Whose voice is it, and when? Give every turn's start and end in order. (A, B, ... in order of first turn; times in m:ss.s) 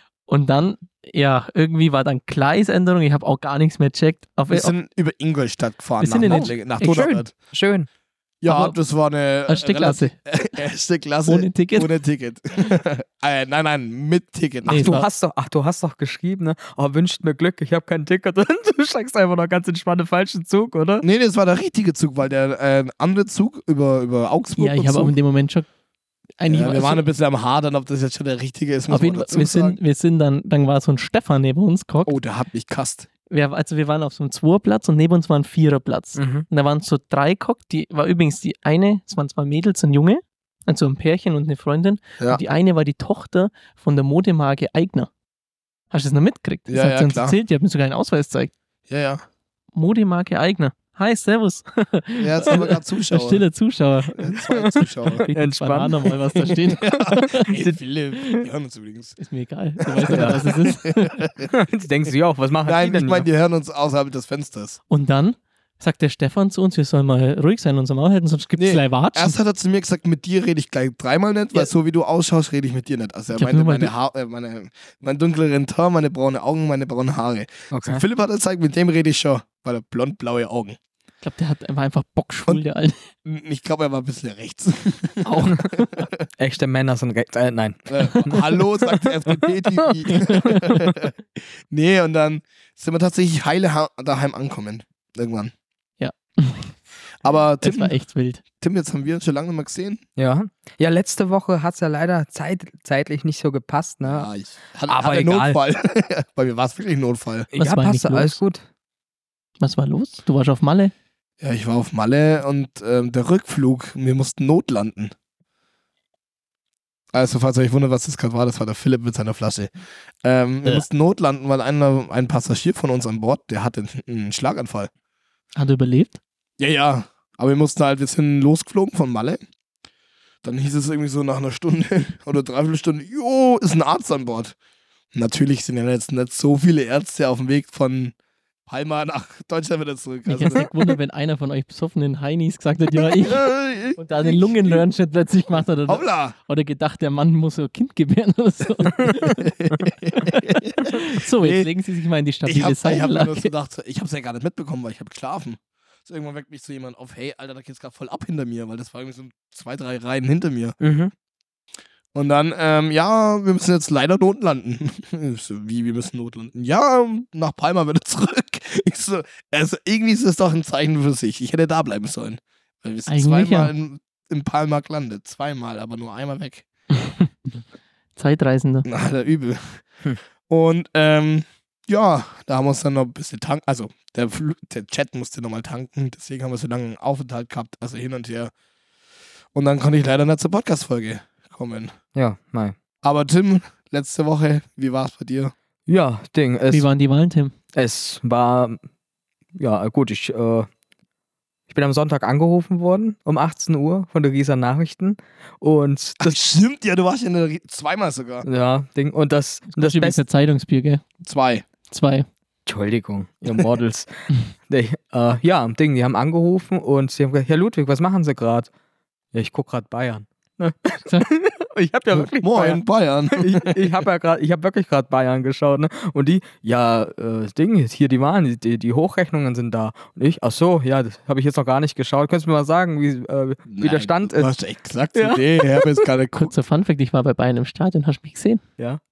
0:00.3-0:04.7 A
0:04.5-0:07.3 B
0:06.0-0:07.1 A
0:06.2-0:07.9 C
0:08.4-0:15.0 B
0:08.5-0:08.8 A
0:09.5-0:10.2 A
0:11.3-0:11.9 A
0:14.7-0:21.0 C
0:14.7-0:15.1 A
0:21.0-0:25.2 B
0:24.6-0:25.7 A
0:26.4-0:27.0 A
0:26.5-0:29.8 B
0:28.9-0:32.2 A
0:32.1-0:33.1 B
0:33.3-0:45.1 A
0:36.2-0:36.5 C
0:45.9-0:48.5 A
0:46.7-0:47.4 B
0:48.9-0:49.2 B
0:49.7-0:54.4 A
0:52.2-0:53.4 B
0:54.2-0:55.2 B
0:54.5-0:57.2 C
0:55.2-0:57.5 A
0:56.8-0:59.2 B
0:59.2-1:01.3 A
0:59.9-1:01.5 B
1:00.1-1:00.4 C
1:01.5-1:03.3 C
1:02.6-1:04.8 B
1:04.9-1:09.4 A
1:08.6-1:20.8 B
1:13.4-1:13.9 A
1:17.7-1:18.0 C
1:21.2-1:23.1 A
1:23.2-1:26.2 B
1:25.2-1:26.1 A
1:26.4-1:30.1 C
1:27.9-1:35.5 B
1:30.1-1:30.9 A
1:36.0-1:36.9 A
1:37.2-1:38.0 B
1:37.6-1:38.4 A
1:38.6-1:40.0 B
1:40.2-1:44.3 C
1:44.1-1:47.5 B
1:44.9-1:45.6 C
1:47.5-1:48.6 C
1:47.6-1:48.4 A
1:49.6-1:50.9 A
1:51.4-1:55.1 B
1:57.1-1:59.7 B
2:00.2-2:04.9 B
2:05.6-2:06.2 A
2:06.6-2:09.4 B
2:10.4-2:14.6 B
2:15.1-2:18.2 B
2:18.7-2:20.7 B
2:20.3-2:29.4 A
2:23.3-2:24.8 B
2:25.5-2:26.4 B
2:29.0-2:31.7 B
2:30.8-2:33.5 A
2:32.5-2:40.8 B
2:40.8-2:41.1 C
2:42.2-2:56.7 B
2:53.1-2:53.7 A
2:57.0-2:57.3 A
2:58.2-2:58.9 A
2:58.9-2:59.9 B
3:00.5-3:08.5 B
3:09.6-3:11.9 B
3:12.2-3:12.8 C
3:13.0-3:15.5 B
3:15.9-3:16.9 C
3:16.7-3:17.5 A
3:17.7-3:18.8 C
3:19.6-3:20.7 C
3:21.7-3:26.4 C
3:26.2-3:28.5 B
3:28.4-3:30.2 C
3:29.7-3:31.0 A
3:31.2-3:31.6 B
3:31.9-3:32.3 A
3:32.7-3:38.7 C
3:39.3-3:54.5 C
3:42.1-3:44.0 B
3:53.7-3:56.5 B
3:55.2-3:56.0 C
3:56.4-3:58.6 A